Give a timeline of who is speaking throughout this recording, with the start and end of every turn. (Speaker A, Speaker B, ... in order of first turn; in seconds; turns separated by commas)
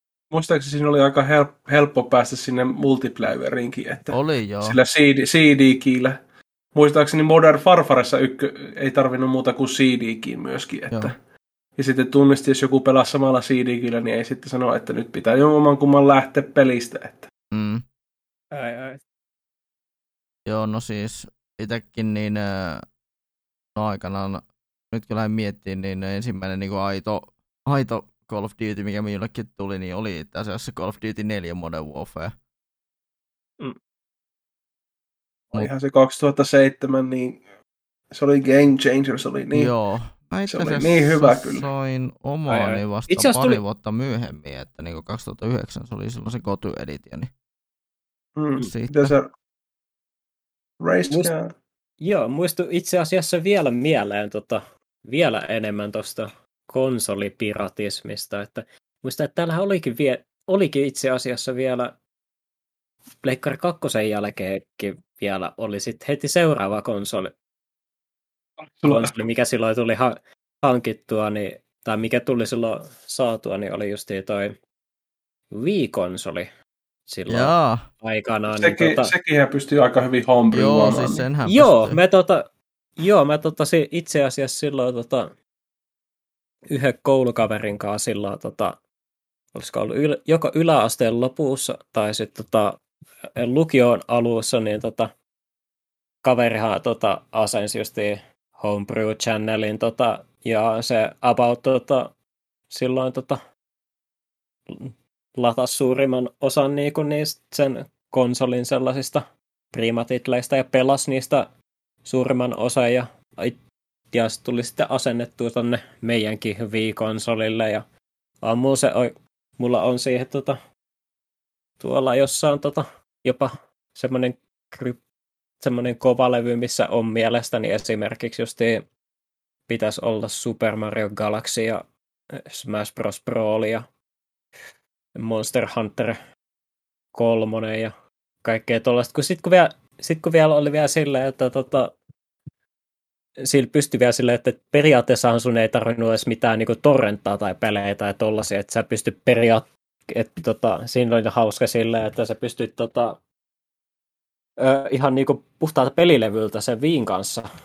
Speaker A: 0.3-6.2, Speaker B: 4.1-4.8, Speaker A: 6.8-11.1, Speaker A: 11.8-17.3, Speaker B: 17.5-17.8, Speaker C: 18.5-19.0, Speaker B: 20.5-22.8, Speaker B: 23.8-32.3, Speaker A: 35.5-37.4, Speaker A: 38.1-39.7, Speaker B: 39.5-47.3, Speaker A: 40.5-41.7, Speaker C: 42.5-43.6, Speaker A: 48.4-49.3, Speaker B: 48.6-49.1, Speaker A: 50.8-51.5, Speaker C: 52.0-61.9, Speaker C: 63.2-67.3, Speaker A: 68.6-69.1, Speaker C: 68.9-74.5, Speaker C: 75.5-76.5, Speaker C: 77.1-79.1, Speaker B: 77.3-77.8, Speaker A: 78.5-81.2, Speaker B: 80.5-82.0, Speaker C: 81.5-82.4, Speaker C: 83.0-85.3, Speaker C: 86.7-88.8, Speaker C: 89.5-92.8, Speaker C: 93.4-95.1, Speaker C: 96.2-102.1, Speaker C: 102.7-103.4, Speaker C: 104.7-111.5, Speaker C: 112.0-113.6, Speaker C: 114.1-117.8, Speaker C: 118.4-120.6, Speaker C: 121.8-125.0, Speaker C: 125.6-128.8, Speaker C: 129.7-131.8, Speaker C: 132.4-133.9, Speaker C: 135.2-136.2, Speaker C: 137.1-137.9, Speaker C: 138.4-141.9, Speaker C: 143.4-153.2, Speaker C: 154.6-157.5